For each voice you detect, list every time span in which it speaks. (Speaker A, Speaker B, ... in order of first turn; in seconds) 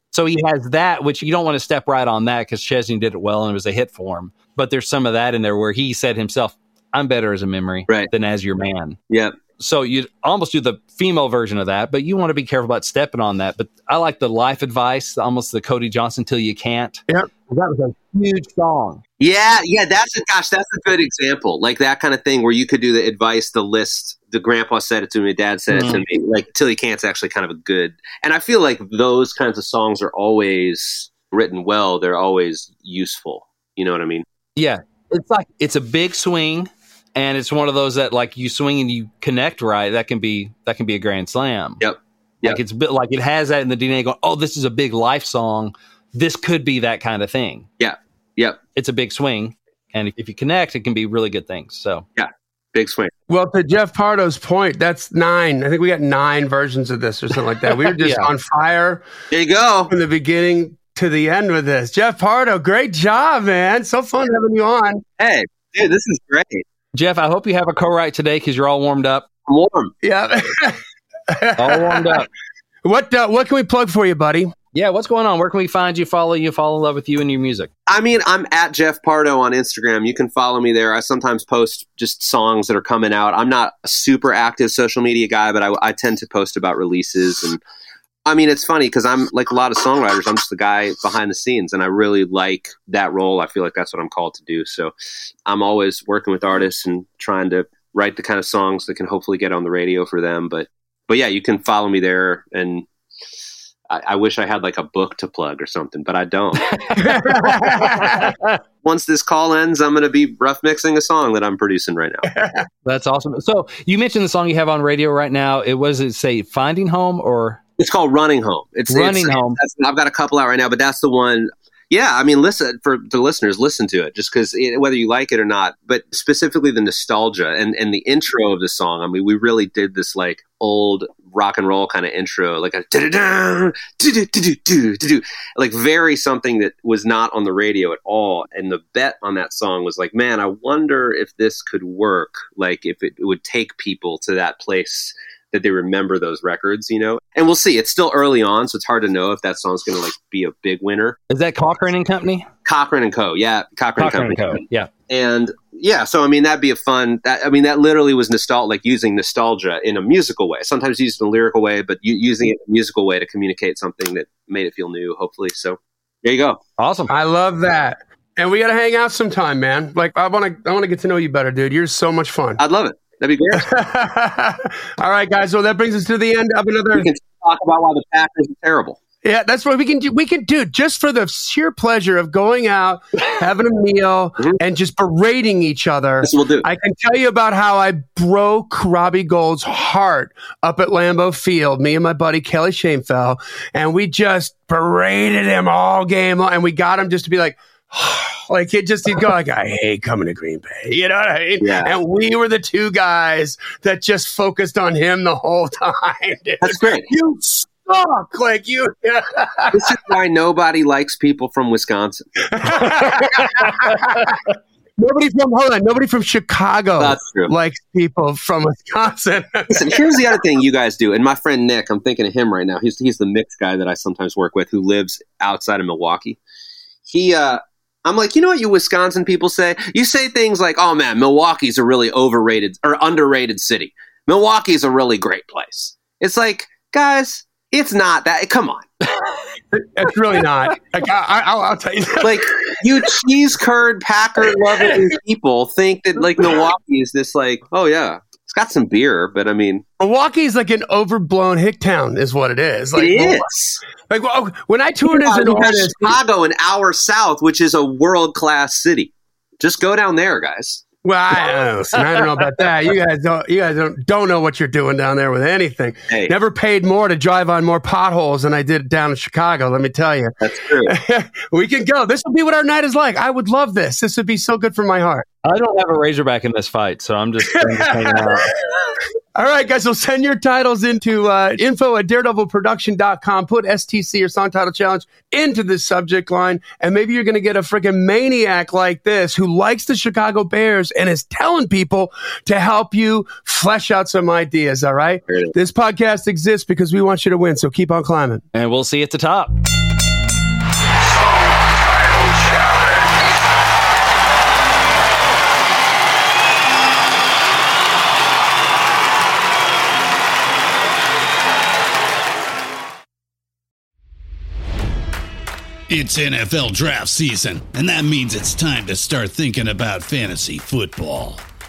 Speaker A: 0.1-9.0, 9.6-17.1, 17.9-19.0, 25.7-26.0, 34.6-41.8, 42.4-47.7, 48.7-52.1, 57.9-58.3, 66.9-69.2, 71.6-72.3, 74.7-77.7, 106.7-108.6, 112.8-117.6, 118.9-119.6, 151.3-152.5, 154.0-154.9, 166.8-167.1, 275.4-278.5, 298.5-299.5
Speaker B: 9.1-9.4, 19.2-34.2, 41.8-42.6, 47.8-48.6, 52.2-53.1, 59.3-59.9, 65.2-66.6, 69.5-69.9, 77.9-87.6, 88.2-94.9, 95.5-102.9, 103.9-106.8, 108.8-112.3, 117.8-151.2, 152.6-166.6, 172.6-173.7, 176.9-179.0, 186.2-186.7, 201.6-201.9, 206.6-207.1, 209.7-212.4, 217.0-217.5, 219.7-226.4, 227.1-238.9, 242.2-249.8, 252.9-253.8, 255.1-260.8, 270.4-271.0
Speaker C: 17.1-17.9, 53.3-59.0, 59.9-65.0, 70.0-70.8, 71.3-72.2, 72.8-74.5, 107.0-108.3, 112.3-112.7, 167.1-172.6, 173.5-177.1, 179.2-210.0, 212.5-214.4, 215.0-220.3, 239.7-243.1, 244.4-245.1, 250.0-253.5, 254.0-256.2, 261.0-275.2, 277.5-298.4
Speaker D: 315.9-321.4